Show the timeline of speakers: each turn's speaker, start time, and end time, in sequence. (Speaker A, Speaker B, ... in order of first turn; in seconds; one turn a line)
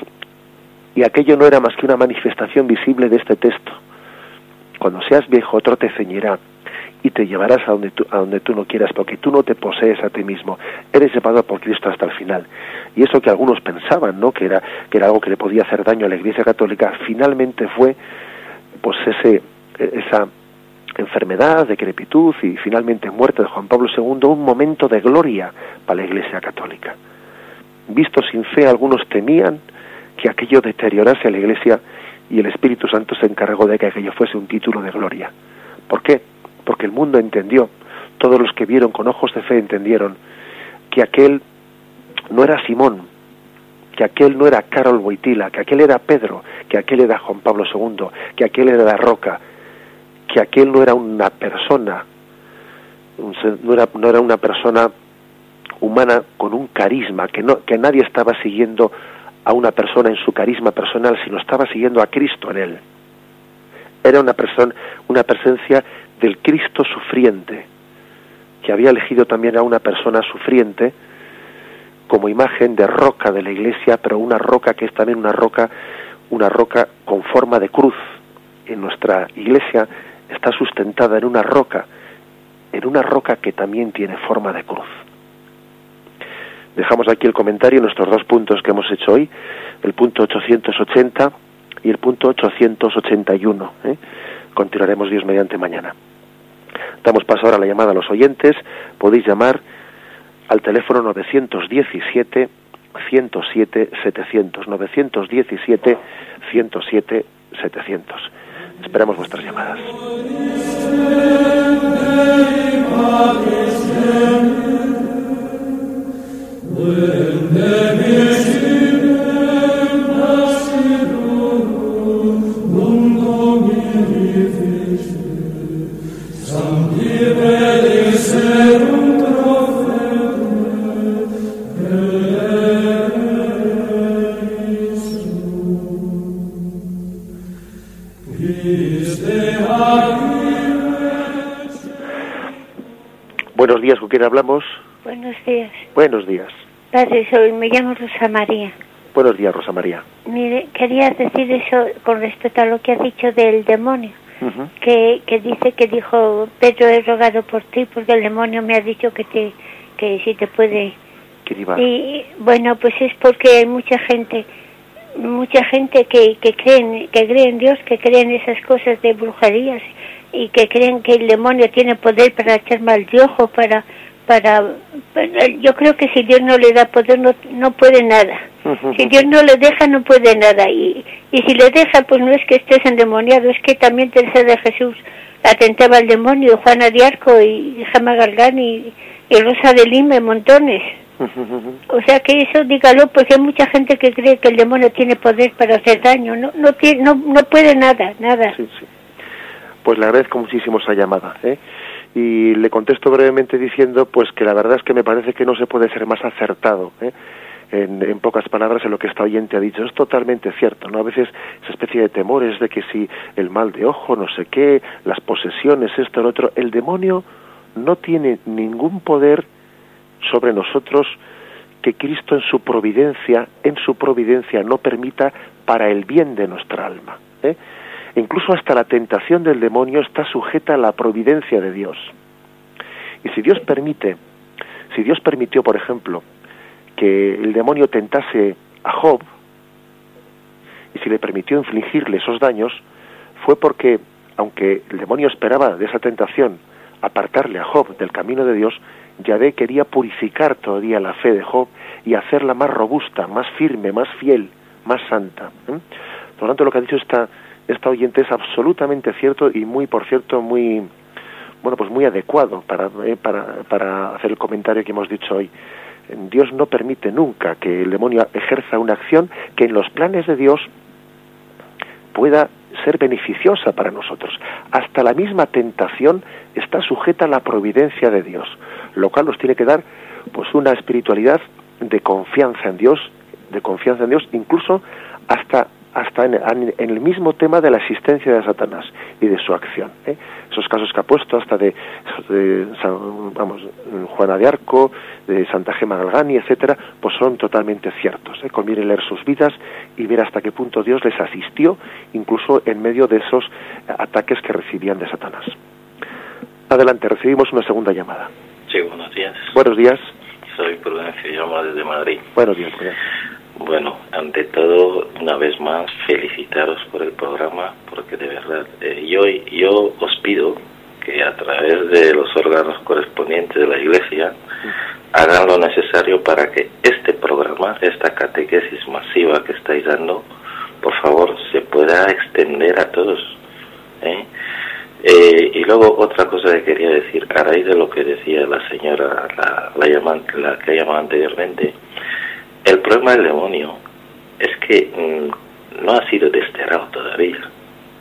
Speaker A: 0.9-3.8
Speaker A: 4.8-6.4
Speaker A: 7.0-18.0
Speaker A: 18.8-20.3
Speaker A: 21.0-27.0
Speaker A: 27.9-29.6
Speaker A: 30.2-35.3
Speaker A: 35.9-40.2
Speaker A: 40.9-41.4
Speaker A: 42.3-43.1
Speaker A: 44.0-49.4
Speaker A: 50.3-52.0
Speaker A: 53.2-54.9
Speaker A: 55.8-58.9
Speaker A: 59.5-62.8
Speaker A: 64.0-67.7
Speaker A: 68.6-70.9
Speaker A: 72.1-75.7
Speaker A: 76.3-78.0
Speaker A: 78.7-81.9
Speaker A: 82.7-84.9
Speaker A: 86.8-89.3
Speaker A: 89.8-91.3
Speaker A: 91.8-94.0
Speaker A: 94.5-96.0
Speaker A: 97.0-99.6
Speaker A: 100.5-109.9
Speaker A: 143.5-144.8
Speaker B: 145.1-145.8
Speaker A: 145.9-146.6
Speaker B: 146.9-148.8
Speaker A: 149.1-150.0
Speaker B: 150.3-154.2
Speaker A: 154.4-154.7
Speaker B: 154.8-160.9
Speaker A: 161.4-161.8
Speaker B: 161.8-164.5
Speaker B: 165.2-191.0
Speaker A: 178.7-178.9
Speaker A: 191.2-191.5
Speaker B: 191.9-198.6
Speaker A: 198.5-198.8
Speaker A: 199.8-201.6
Speaker A: 202.2-207.1
Speaker A: 207.7-217.2
Speaker A: 217.8-219.5
Speaker A: 220.2-221.2
Speaker A: 221.8-227.6
Speaker A: 228.2-232.1
Speaker A: 233.2-234.2
Speaker A: 234.9-236.3
Speaker A: 237.0-239.3
Speaker A: 240.9-242.8
Speaker A: 243.4-255.8
Speaker A: 256.4-260.9
Speaker A: 261.6-265.5
Speaker A: 266.1-270.7
Speaker A: 272.1-305.5
Speaker A: 306.7-308.3
Speaker C: 308.7-309.6
Speaker A: 309.5-310.1
Speaker C: 310.5-312.3
Speaker A: 312.4-313.0
Speaker C: 313.6-324.4
Speaker C: 325.1-330.2
Speaker C: 330.8-333.4
Speaker C: 334.0-334.3
Speaker C: 335.0-341.7
Speaker C: 342.6-343.8
Speaker C: 344.4-347.5